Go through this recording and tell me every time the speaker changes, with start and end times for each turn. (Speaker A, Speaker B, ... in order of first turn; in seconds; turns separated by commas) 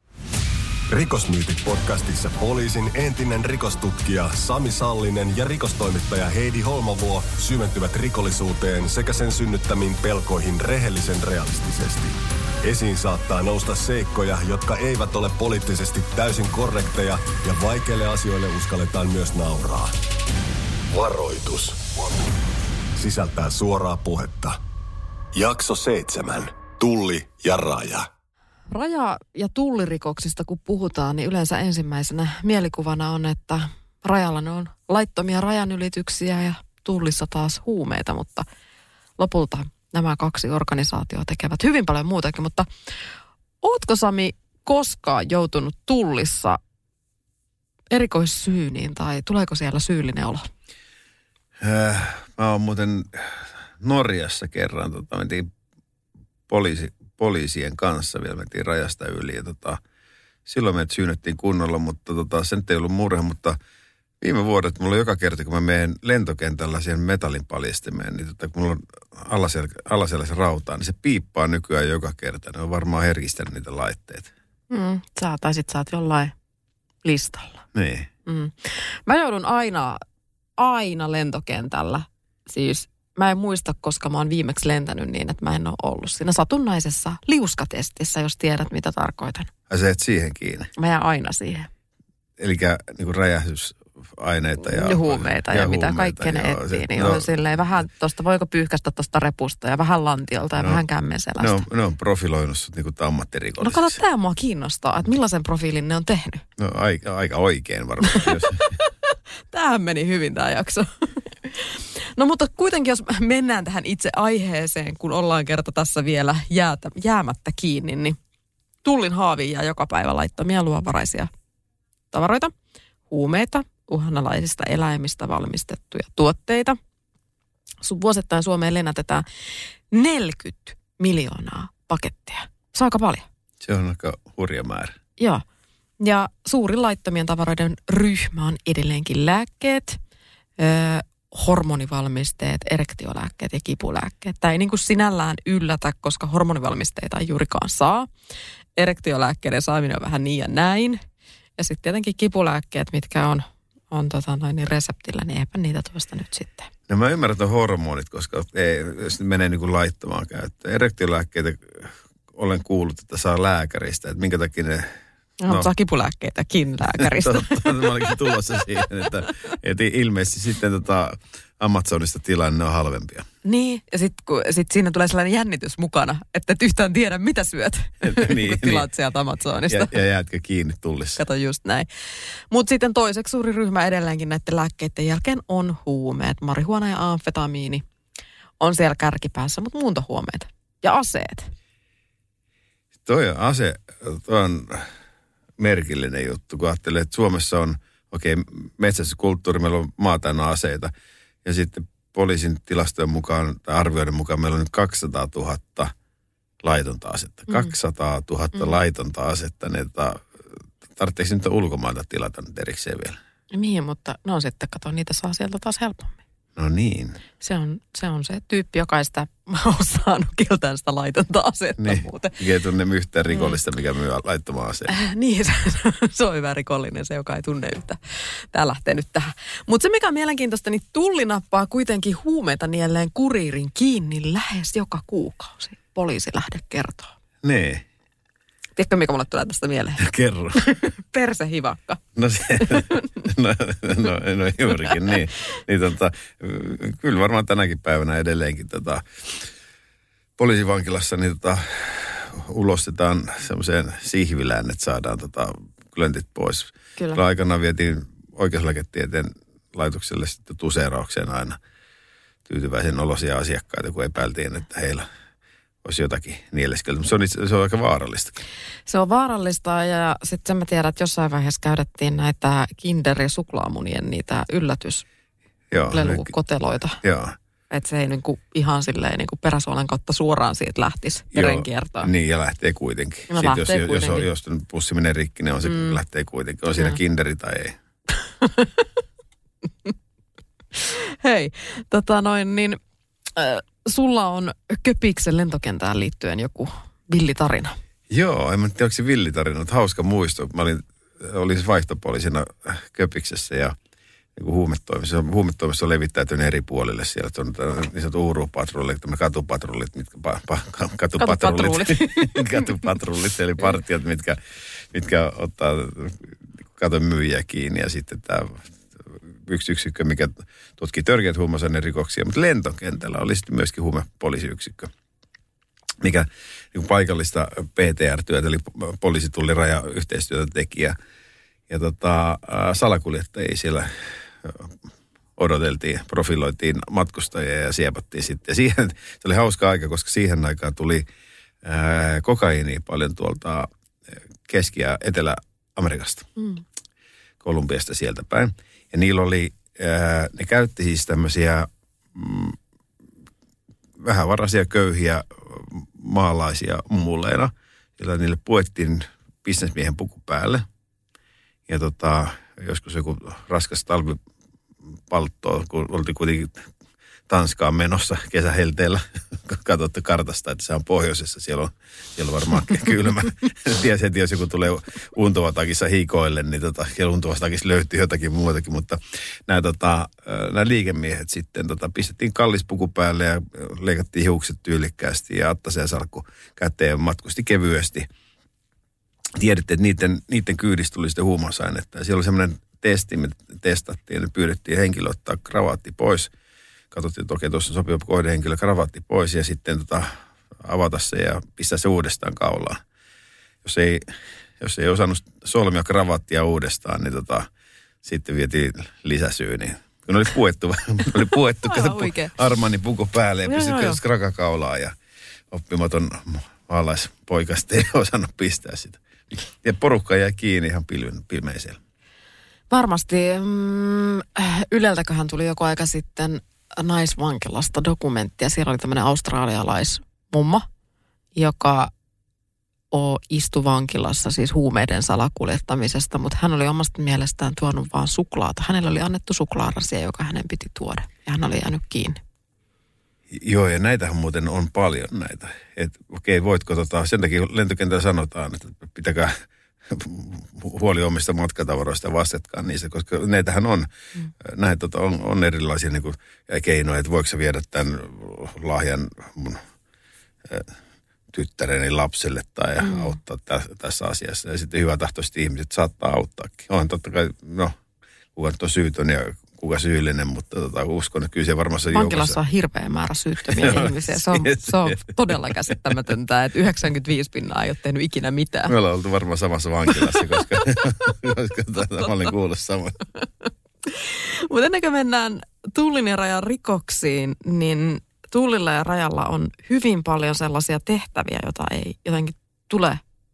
Speaker A: 0.9-19.9, Speaker A: 20.9-21.9, Speaker A: 23.0-24.6, Speaker A: 25.3-28.1, Speaker B: 28.7-38.5, Speaker B: 39.2-42.7, Speaker B: 43.6-46.6, Speaker B: 47.9-50.5, Speaker C: 51.6-55.5, Speaker C: 56.5-59.8, Speaker C: 60.5-63.6, Speaker C: 64.2-74.3, Speaker B: 74.7-76.3, Speaker B: 77.0-77.6, Speaker C: 77.7-78.1, Speaker B: 78.3-80.0, Speaker B: 80.6-89.5, Speaker C: 89.7-90.7, Speaker B: 90.8-91.7, Speaker C: 92.4-97.3, Speaker B: 94.6-101.6, Speaker C: 101.4-104.0, Speaker B: 103.6-106.5, Speaker C: 106.6-108.8, Speaker B: 108.1-118.2, Speaker B: 118.8-121.3, Speaker B: 122.1-122.5, Speaker B: 123.1-126.8, Speaker B: 127.8-129.2, Speaker B: 129.9-133.2, Speaker C: 133.6-135.0, Speaker B: 135.2-135.4, Speaker B: 136.0-140.0, Speaker B: 140.6-148.1, Speaker B: 148.8-151.0, Speaker B: 151.6-156.7, Speaker C: 156.9-164.9, Speaker B: 165.4-168.3, Speaker C: 167.0-173.3, Speaker B: 173.4-180.0, Speaker C: 178.0-178.9, Speaker C: 179.7-181.2, Speaker B: 181.2-181.9, Speaker B: 182.5-187.8, Speaker B: 188.6-191.5, Speaker C: 193.1-194.9, Speaker C: 195.6-200.9, Speaker C: 201.4-205.9, Speaker C: 206.6-210.3, Speaker C: 210.9-213.2, Speaker B: 213.5-216.2, Speaker C: 216.6-217.2, Speaker B: 217.4-222.4, Speaker C: 221.8-224.9, Speaker B: 223.3-223.6, Speaker B: 224.9-237.1, Speaker C: 237.4-237.8, Speaker B: 238.8-242.0, Speaker C: 240.0-240.6, Speaker C: 242.2-249.5, Speaker B: 242.6-243.2, Speaker C: 250.4-261.6, Speaker C: 262.5-265.1, Speaker C: 265.8-268.4, Speaker B: 268.9-275.1, Speaker C: 275.7-276.3, Speaker B: 275.9-277.0, Speaker C: 277.0-277.4, Speaker B: 277.7-282.1, Speaker C: 281.3-287.8, Speaker B: 283.3-284.3, Speaker B: 285.7-286.0, Speaker B: 288.4-288.9, Speaker B: 290.8-292.8, Speaker B: 293.4-297.8, Speaker C: 298.1-303.8, Speaker C: 304.4-314.4, Speaker B: 311.2-312.9, Speaker C: 314.9-324.9, Speaker C: 326.0-331.0, Speaker C: 331.7-334.7, Speaker C: 335.4-341.1, Speaker C: 341.6-343.7, Speaker C: 344.5-346.3, Speaker B: 346.4-346.6, Speaker C: 347.4-352.6, Speaker C: 354.0-360.7, Speaker C: 361.7-364.2, Speaker C: 365.1-366.7, Speaker C: 367.3-388.1, Speaker C: 389.4-396.3, Speaker C: 396.9-402.8, Speaker C: 403.6-407.5, Speaker C: 408.0-414.9, Speaker B: 411.6-412.4, Speaker B: 413.5-414.0, Speaker C: 415.5-421.8, Speaker B: 422.7-430.7, Speaker B: 431.4-431.9, Speaker B: 432.9-442.2, Speaker C: 443.3-453.9, Speaker C: 454.4-459.6, Speaker C: 460.5-460.7, Speaker C: 461.3-467.8, Speaker B: 462.8-463.1, Speaker C: 468.4-472.4, Speaker B: 471.9-478.7, Speaker C: 473.5-475.8, Speaker C: 478.7-483.0, Speaker B: 479.9-480.6, Speaker B: 483.9-493.0